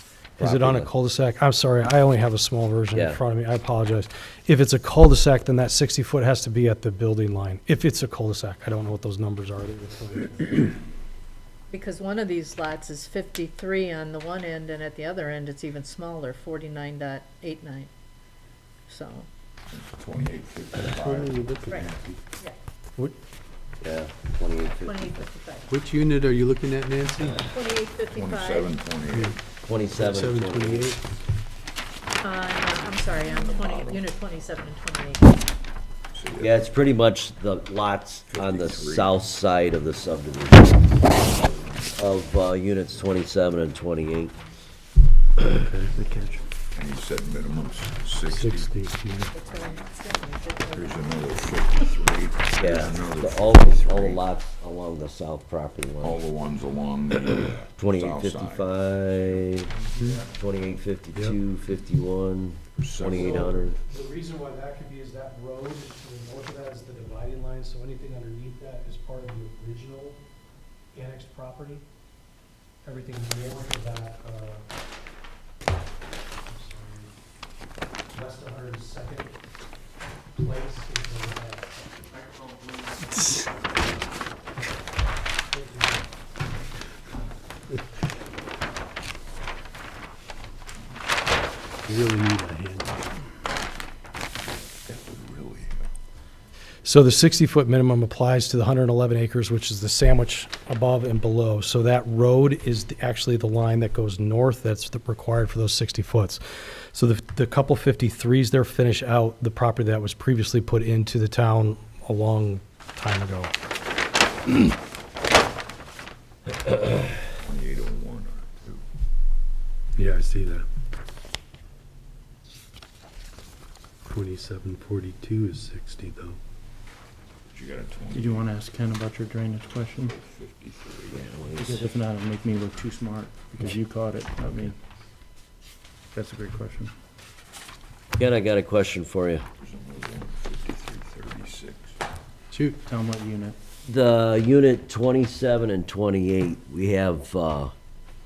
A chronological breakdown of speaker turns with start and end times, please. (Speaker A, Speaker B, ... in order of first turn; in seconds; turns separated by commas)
Speaker A: 0.4-0.9, Speaker B: 0.4-10.7, Speaker A: 2.9-3.2, Speaker C: 11.7-17.9, Speaker C: 18.9-19.3, Speaker D: 19.7-21.5, Speaker E: 20.9-22.2, Speaker C: 21.7-22.6, Speaker A: 23.8-25.1, Speaker C: 24.8-25.8, Speaker E: 25.7-27.5, Speaker C: 27.4-28.8, Speaker D: 28.1-29.4, Speaker E: 29.1-29.4, Speaker A: 29.6-30.9, Speaker E: 29.9-31.0, Speaker C: 32.2-35.4, Speaker D: 33.2-34.0, Speaker D: 36.1-36.7, Speaker A: 36.4-40.9, Speaker D: 38.3-39.2, Speaker A: 42.0-44.4, Speaker E: 45.5-46.0, Speaker F: 46.0-46.4, Speaker D: 46.6-48.7, Speaker E: 48.3-49.3, Speaker C: 49.3-51.3, Speaker D: 49.5-49.8, Speaker D: 50.7-54.3, Speaker A: 52.6-56.2, Speaker D: 56.0-60.3, Speaker A: 57.8-59.7, Speaker A: 60.3-63.8, Speaker D: 62.8-63.7, Speaker B: 63.2-70.2, Speaker B: 70.9-71.8, Speaker B: 72.8-74.7, Speaker B: 76.4-77.1, Speaker B: 78.1-79.4, Speaker B: 80.4-82.1, Speaker F: 82.1-83.3, Speaker B: 85.5-86.0, Speaker E: 91.8-93.1, Speaker D: 94.8-95.9, Speaker B: 96.8-106.4, Speaker B: 106.9-113.5, Speaker D: 116.7-118.8, Speaker E: 120.0-120.7, Speaker E: 124.0-126.4, Speaker D: 127.5-128.5, Speaker F: 128.1-130.2, Speaker D: 129.9-131.4, Speaker A: 131.1-131.9, Speaker F: 131.6-134.8, Speaker F: 136.1-136.9, Speaker A: 138.2-139.4, Speaker D: 139.6-142.0, Speaker E: 142.5-142.8, Speaker F: 142.9-143.6, Speaker A: 143.9-147.7